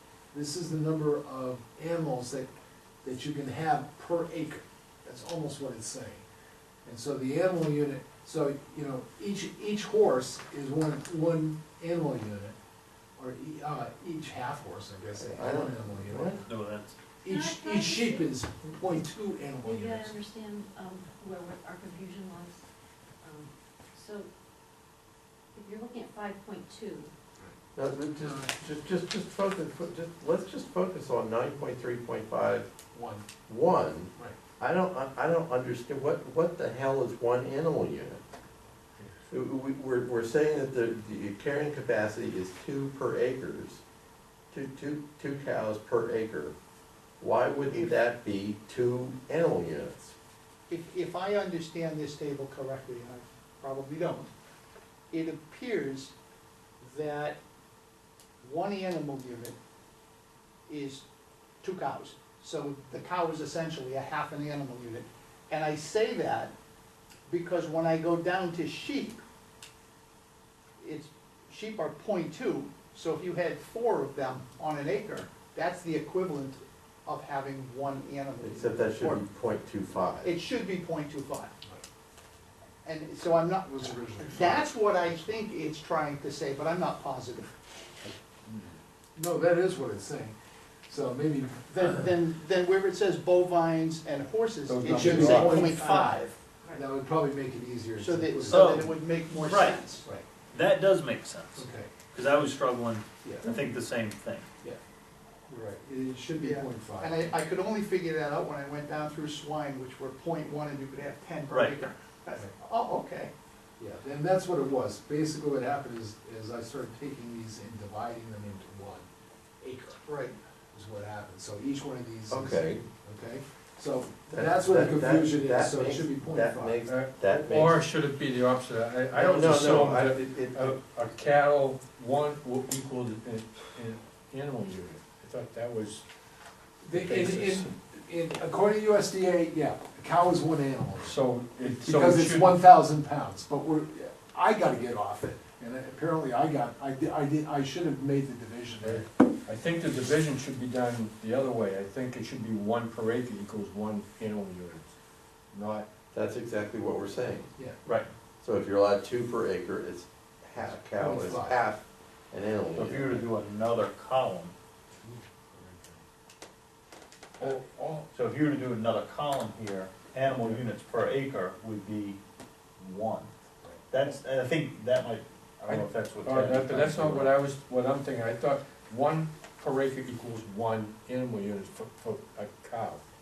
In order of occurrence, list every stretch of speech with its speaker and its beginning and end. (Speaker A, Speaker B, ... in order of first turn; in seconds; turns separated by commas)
Speaker A: 0.3-2.5, Speaker A: 3.0-6.2, Speaker A: 6.8-12.6, Speaker A: 13.2-16.5, Speaker B: 15.2-16.4, Speaker C: 16.4-17.0, Speaker A: 17.2-20.2, Speaker D: 17.3-18.3, Speaker D: 19.6-22.6, Speaker D: 23.2-24.3, Speaker D: 25.5-27.1, Speaker B: 27.7-32.7, Speaker A: 32.9-33.3, Speaker B: 33.5-38.2, Speaker B: 39.3-43.8, Speaker B: 44.5-46.5, Speaker B: 47.2-50.1, Speaker E: 47.7-48.0, Speaker E: 50.7-54.3, Speaker E: 55.1-56.1, Speaker E: 56.8-57.4, Speaker E: 58.4-59.6, Speaker E: 60.7-61.0, Speaker E: 61.6-66.5, Speaker E: 67.3-69.2, Speaker E: 70.8-79.2, Speaker B: 78.4-80.3, Speaker E: 80.2-81.5, Speaker E: 82.8-87.5, Speaker A: 83.7-85.2, Speaker A: 88.0-90.3, Speaker A: 90.9-92.0, Speaker E: 91.7-96.3, Speaker F: 94.7-95.6, Speaker A: 94.8-96.2, Speaker C: 94.9-95.6, Speaker A: 96.7-98.9, Speaker E: 98.0-100.0, Speaker C: 98.5-99.9, Speaker C: 100.5-104.5, Speaker A: 101.5-101.9, Speaker A: 103.2-103.6, Speaker A: 105.5-107.4, Speaker E: 106.4-113.3, Speaker C: 111.5-111.8, Speaker A: 113.8-119.1, Speaker A: 119.6-120.0, Speaker E: 120.0-120.3, Speaker A: 120.7-126.8, Speaker B: 122.3-122.8, Speaker B: 124.3-127.8, Speaker F: 126.8-136.0, Speaker B: 129.1-130.8, Speaker A: 136.8-149.1, Speaker F: 136.9-137.7, Speaker F: 141.0-142.6, Speaker F: 148.8-154.9, Speaker F: 155.5-155.8, Speaker B: 156.1-157.5, Speaker B: 158.4-163.3, Speaker A: 160.7-161.6, Speaker C: 162.7-164.5, Speaker A: 165.0-166.0, Speaker F: 167.4-168.1, Speaker C: 168.1-172.2, Speaker F: 170.3-170.6, Speaker C: 172.8-173.3, Speaker C: 173.9-177.3, Speaker F: 175.7-183.0